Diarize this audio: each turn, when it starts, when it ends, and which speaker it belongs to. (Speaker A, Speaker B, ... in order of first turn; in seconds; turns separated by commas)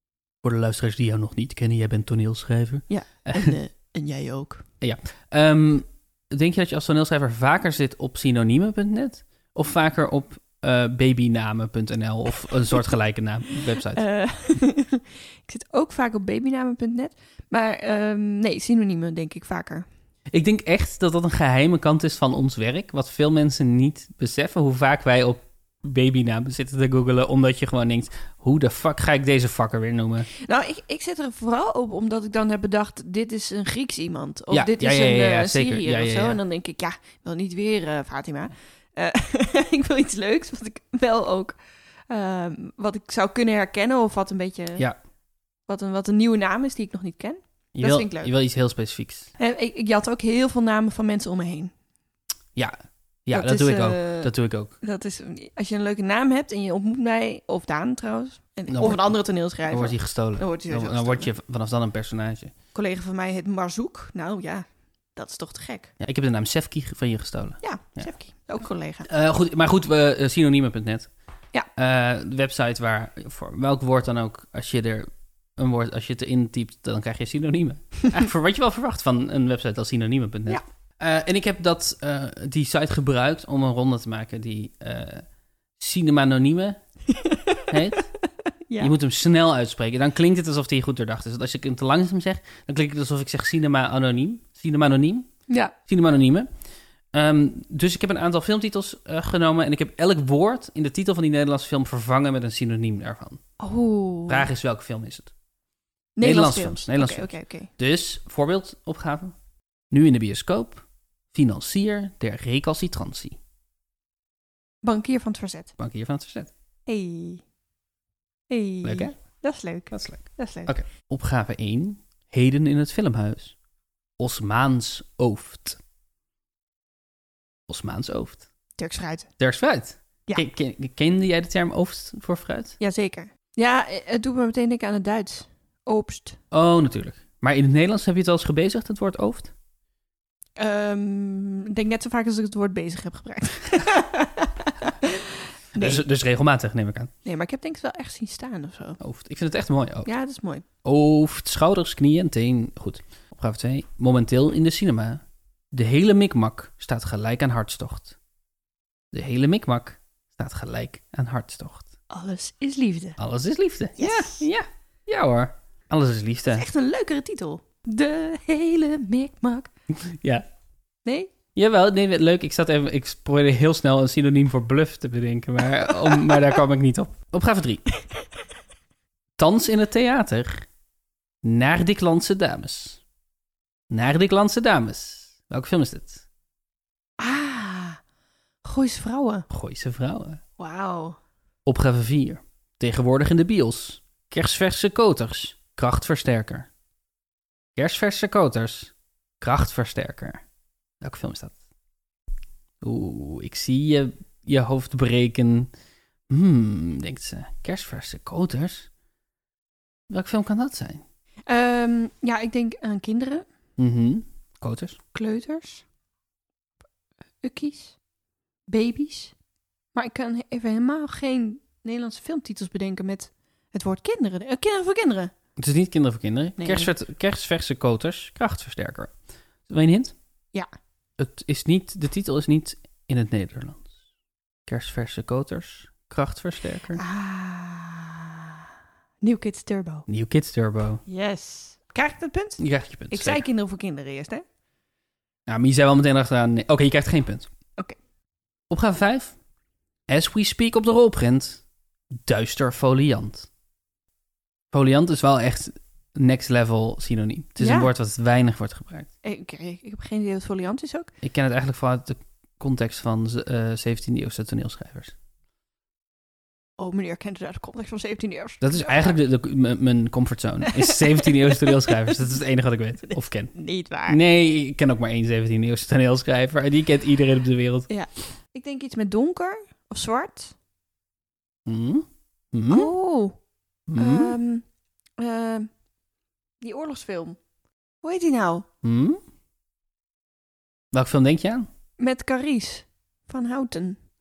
Speaker A: 0.4-3.5, Speaker B: 2.9-4.6, Speaker A: 4.8-14.0, Speaker B: 13.8-19.9, Speaker A: 20.3-30.3, Speaker B: 30.3-41.6, Speaker A: 34.5-36.4, Speaker B: 42.1-44.9, Speaker B: 45.7-48.3, Speaker A: 47.7-49.3, Speaker B: 49.4-51.7, Speaker A: 53.2-54.7, Speaker B: 53.3-61.3, Speaker A: 58.7-59.1, Speaker A: 59.7-62.5, Speaker B: 62.7-65.9, Speaker A: 66.0-68.1, Speaker B: 67.6-69.1, Speaker A: 69.1-71.1, Speaker A: 71.8-85.2, Speaker A: 85.8-86.8, Speaker B: 87.1-87.7, Speaker A: 87.7-88.1, Speaker B: 88.7-88.9, Speaker A: 88.8-95.3, Speaker B: 95.5-95.7, Speaker A: 95.8-96.5, Speaker A: 97.1-103.4, Speaker B: 103.6-104.5, Speaker A: 104.3-105.3, Speaker B: 106.2-107.7, Speaker A: 106.2-109.3, Speaker A: 109.9-113.4, Speaker B: 114.8-115.7, Speaker A: 115.8-116.5, Speaker B: 116.9-117.4, Speaker B: 118.5-120.7, Speaker A: 118.8-119.1, Speaker A: 119.9-123.5, Speaker A: 124.2-125.8, Speaker A: 127.7-128.4, Speaker B: 128.8-129.3, Speaker A: 129.4-132.8, Speaker B: 132.8-136.4, Speaker A: 136.5-139.5, Speaker B: 140.6-146.0, Speaker A: 145.7-147.1, Speaker B: 147.2-149.0, Speaker A: 149.0-150.1, Speaker B: 150.0-150.7, Speaker A: 150.8-155.2, Speaker A: 155.7-158.2, Speaker A: 159.1-161.9, Speaker B: 162.1-163.2, Speaker A: 163.2-166.6, Speaker B: 164.0-164.4, Speaker B: 166.5-169.7, Speaker A: 169.9-170.4, Speaker B: 171.0-171.3, Speaker A: 171.5-177.8, Speaker A: 179.4-180.6, Speaker A: 181.4-183.0, Speaker A: 183.9-186.2, Speaker B: 187.2-188.0, Speaker B: 188.6-189.5, Speaker A: 189.5-190.4, Speaker B: 190.6-191.2, Speaker A: 191.6-196.7, Speaker A: 197.8-200.4, Speaker A: 201.0-201.6, Speaker A: 202.8-205.7, Speaker A: 206.3-208.9, Speaker A: 210.1-211.0, Speaker B: 211.5-213.4, Speaker A: 213.8-215.0, Speaker B: 215.1-215.8, Speaker B: 217.4-217.9, Speaker B: 218.7-219.3, Speaker B: 219.9-225.3, Speaker A: 225.6-229.1, Speaker B: 226.6-226.9, Speaker A: 229.7-230.1, Speaker A: 231.2-233.9, Speaker A: 234.7-237.0, Speaker B: 236.9-238.6, Speaker B: 239.2-240.1, Speaker A: 240.1-241.0, Speaker B: 241.1-244.4, Speaker A: 242.6-243.4, Speaker A: 245.5-247.5, Speaker A: 248.7-249.3, Speaker A: 250.1-251.6, Speaker A: 252.2-253.5, Speaker A: 254.7-259.1, Speaker B: 257.6-257.9, Speaker B: 259.2-261.1, Speaker A: 261.2-265.1, Speaker B: 266.8-269.2, Speaker A: 268.6-273.5, Speaker B: 270.7-272.2, Speaker B: 273.1-274.2, Speaker A: 274.1-277.9, Speaker B: 277.9-280.5, Speaker A: 281.6-282.9, Speaker B: 282.7-283.4, Speaker A: 283.9-284.4, Speaker B: 283.9-284.6, Speaker B: 285.2-285.7, Speaker B: 286.6-287.4, Speaker B: 288.0-288.6, Speaker A: 288.8-289.2, Speaker A: 290.9-291.7, Speaker B: 292.0-294.0